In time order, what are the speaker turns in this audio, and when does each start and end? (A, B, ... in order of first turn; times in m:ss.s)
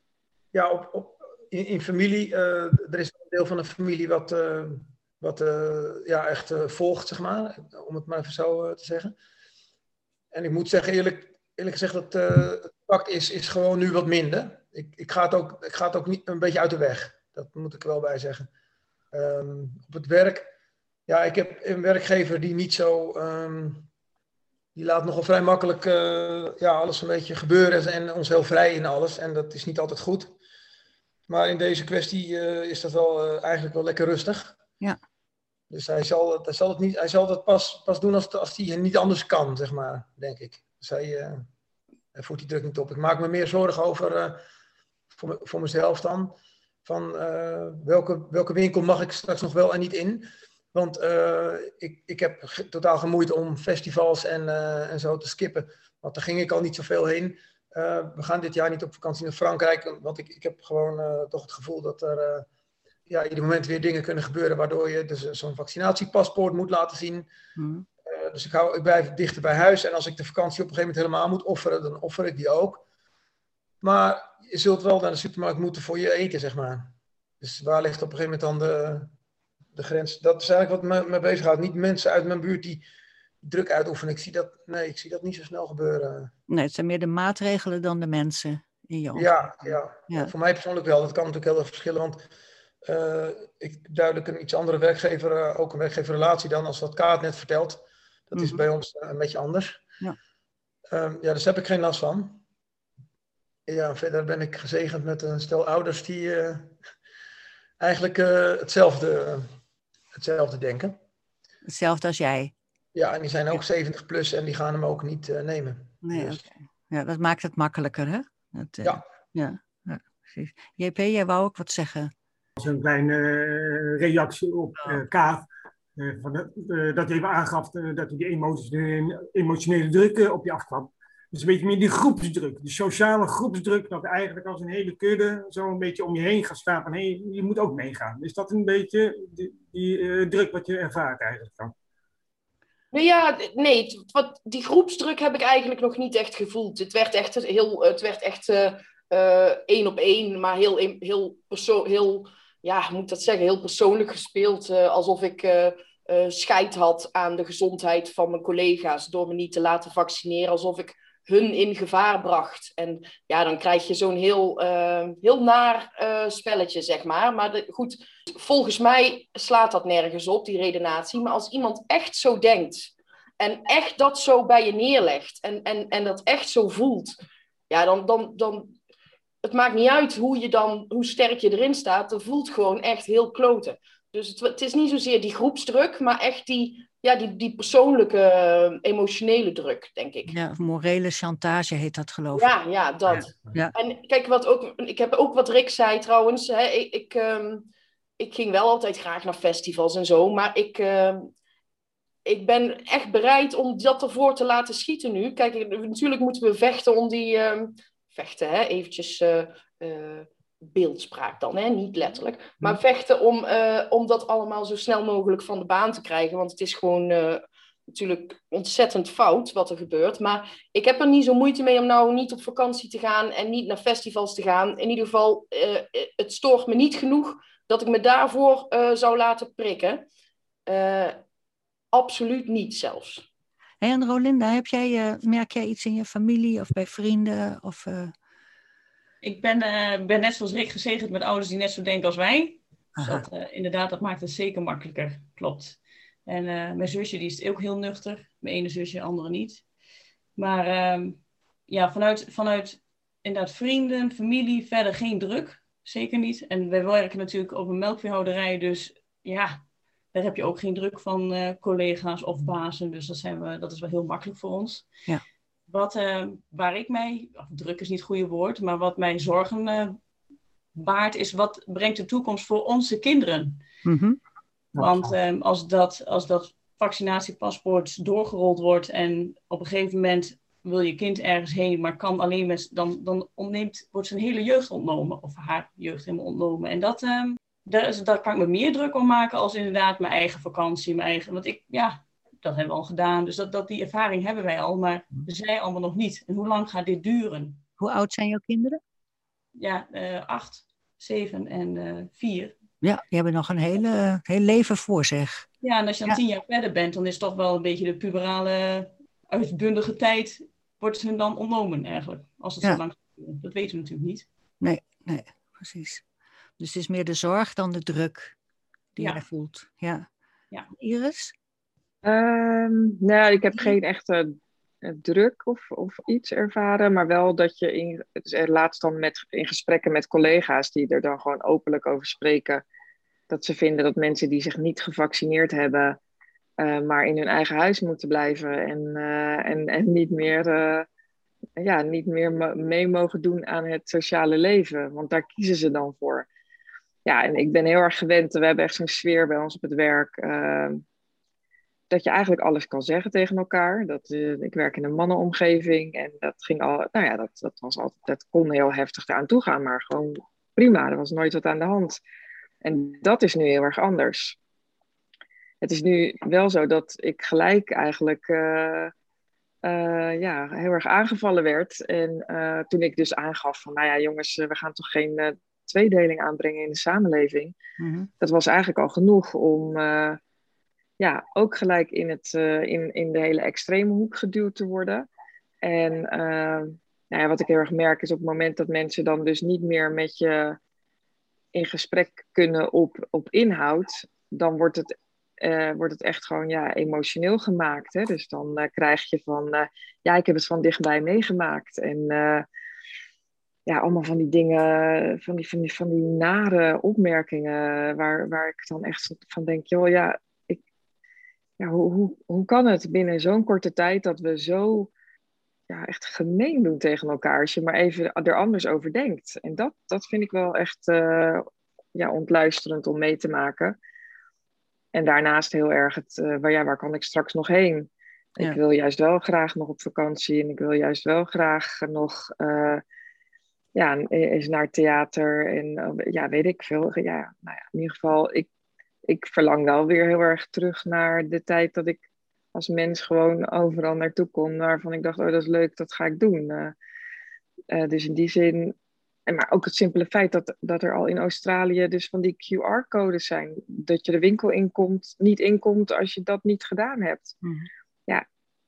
0:00.5-0:09.2 A
0:10.3-0:18.5 A
0:19.1-0:20.5 A
0:21.1-0:23.9 A
0:24.8-0:30.4 A
0:31.3-0:34.6 A
0:35.7-0:41.5 A
0:42.1-0:44.4 A
0:45.1-1:02.5 A
1:03.1-1:07.3 A
1:07.6-1:07.9 B
1:08.0-1:12.8 A
1:13.8-1:19.1 A
1:19.7-1:22.8 A
1:23.4-1:26.3 A
1:26.5-1:30.3 B
1:29.1-1:32.2 A
1:32.8-1:39.8 A
1:38.4-1:38.6 B
1:40.9-1:42.4 A
1:43.7-1:46.7 A
1:47.8-1:49.5 A
1:50.1-1:51.0 A
1:51.6-1:52.5 B
1:52.9-1:56.4 A
1:56.0-2:02.1 B
2:02.6-2:05.4 C
2:06.0-2:21.7 C
2:22.9-2:57.2 D
2:57.7-2:58.7 D
2:59.4-3:10.4 D
3:10.3-3:12.5 B
3:12.3-3:17.6 D
3:13.1-3:13.6 C
3:13.1-3:13.7 B
3:18.2-3:21.3 D
3:22.2-3:50.0 D
3:50.6-3:51.2 D
3:51.9-3:53.2 D
3:53.8-3:58.1 B
3:59.2-4:09.6 E
4:03.0-4:03.2 B
4:10.4-4:19.6 E
4:20.1-4:24.9 E
4:25.7-4:30.0 E
4:30.8-4:33.6 E
4:33.8-4:34.2 B
4:34.7-4:35.1 C
4:34.8-4:57.6 E
4:57.8-4:58.8 B
4:59.5-5:02.5 E
5:02.8-5:05.5 B
5:05.6-5:14.3 E
5:14.6-5:16.0 B
5:16.6-5:18.3 B
5:19.0-5:20.1 B
5:19.0-5:19.2 E
5:20.7-5:21.3 B
5:22.0-5:32.6 F
5:33.3-5:36.0 F
5:36.6-5:40.9 F
5:41.6-5:46.3 F
5:47.0-5:50.8 F
5:51.9-6:02.0 F
6:02.6-6:04.4 F
6:05.6-6:08.9 F
6:09.6-6:17.6 F
6:17.8-6:18.1 B
6:18.2-6:20.2 F
6:21.0-6:25.1 F
6:25.6-6:30.6 F
6:31.5-6:42.4 F
6:43.6-6:50.6 F
6:51.6-6:54.9 F
6:55.7-7:03.8 F
7:04.9-7:12.8 F
7:13.7-7:18.5 F
7:19.1-7:22.0 F
7:22.5-7:26.7 F
7:27.7-7:28.7 F
7:29.3-7:37.4 F
7:37.4-7:37.7 B